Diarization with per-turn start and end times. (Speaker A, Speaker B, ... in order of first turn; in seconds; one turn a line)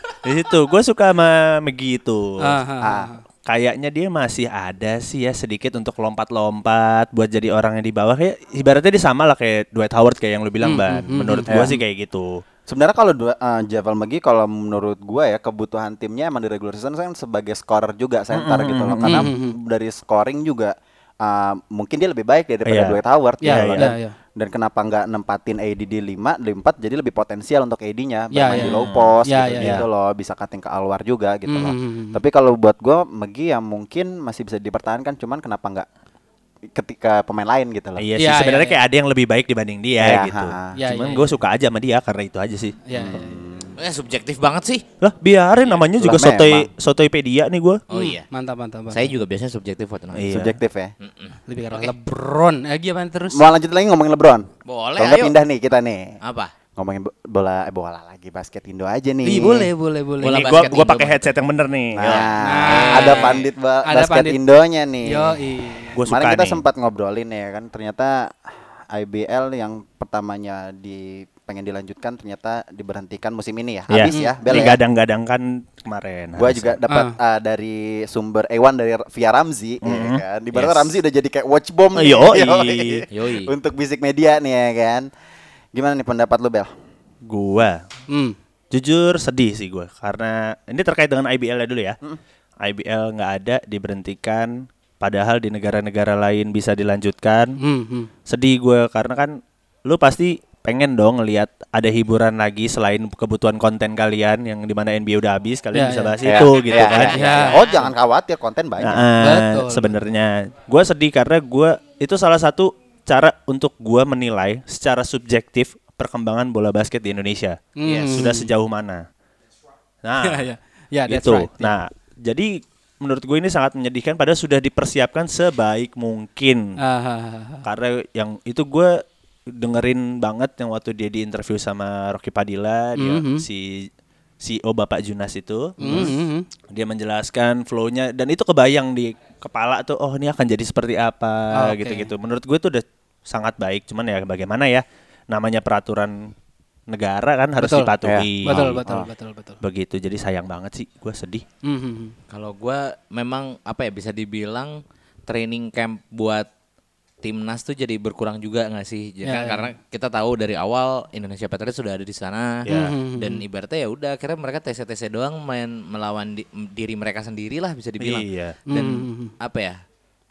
Speaker A: 0.2-2.6
Speaker B: 2.4-3.2
Speaker C: 2.8-3.1
Speaker A: 3.5-12.4
Speaker B: 10.6-11.8
Speaker C: 11.5-11.8
Speaker C: 12.7-35.9
Speaker A: 18.3-19.3
Speaker B: 19.0-19.5
Speaker A: 22.6-23.9
Speaker B: 23.4-24.1
Speaker B: 28.3-29.8
Speaker A: 28.5-29.8
Speaker B: 31.5-32.2
Speaker C: 36.7-38.0
Speaker A: 38.0-42.8
Speaker B: 38.2-38.8
Speaker C: 40.0-40.7
Speaker B: 40.8-41.3
Speaker B: 42.9-43.3
Speaker C: 42.9-43.7
Speaker D: 43.8-44.8
Speaker A: 45.0-47.8
Speaker C: 46.0-46.7
Speaker D: 47.9-48.2
Speaker B: 47.9-49.1
Speaker D: 48.9-50.3
Speaker A: 50.1-50.5
Speaker C: 50.3-50.9
Speaker D: 51.0-51.9
Speaker B: 51.5-53.4
Speaker C: 53.3-56.2
Speaker D: 54.6-55.4
Speaker D: 56.2-56.5
Speaker C: 56.8-59.7
Speaker B: 59.2-60.7
Speaker D: 60.2-61.3
Speaker A: 60.2-62.3
Speaker C: 61.9-65.4
Speaker D: 62.1-63.5
Speaker B: 62.4-64.4
Speaker B: 65.1-66.0
Speaker A: 65.9-66.6
Speaker C: 66.0-74.8
Speaker A: 73.9-76.8
Speaker B: 74.1-74.5
Speaker C: 76.4-85.1
Speaker B: 76.9-77.1
Speaker A: 79.8-80.2
Speaker D: 80.5-80.9
Speaker A: 81.9-83.0
Speaker D: 83.1-83.5
Speaker C: 85.7-86.7
Speaker A: 87.3-87.8
Speaker B: 88.1-88.3
Speaker A: 88.7-92.0
Speaker A: 92.6-97.6
Speaker B: 97.6-98.1
Speaker A: 98.3-107.2
Speaker B: 105.7-106.5
Speaker C: 106.2-109.1
Speaker D: 106.8-107.9
Speaker B: 107.1-107.6
Speaker A: 108.8-119.0
Speaker B: 109.2-110.0
Speaker B: 117.8-118.5
Speaker D: 117.8-118.2
Speaker A: 120.0-120.4
Speaker B: 120.2-121.7
Speaker A: 121.1-126.8
Speaker B: 126.8-127.6
Speaker A: 127.6-133.9
Speaker B: 133.0-133.4
Speaker A: 134.4-136.1
Speaker B: 135.8-136.5
Speaker A: 136.7-146.3
Speaker B: 141.5-142.1
Speaker A: 146.9-148.8
Speaker B: 147.6-147.9
Speaker C: 148.0-149.1
Speaker B: 148.4-149.6
Speaker A: 149.6-151.4
Speaker B: 151.6-152.1
Speaker D: 152.3-156.5
Speaker D: 157.2-169.8
Speaker B: 159.2-159.7
Speaker A: 162.7-163.0
Speaker B: 162.7-163.4
Speaker A: 168.0-168.6
Speaker B: 168.7-169.3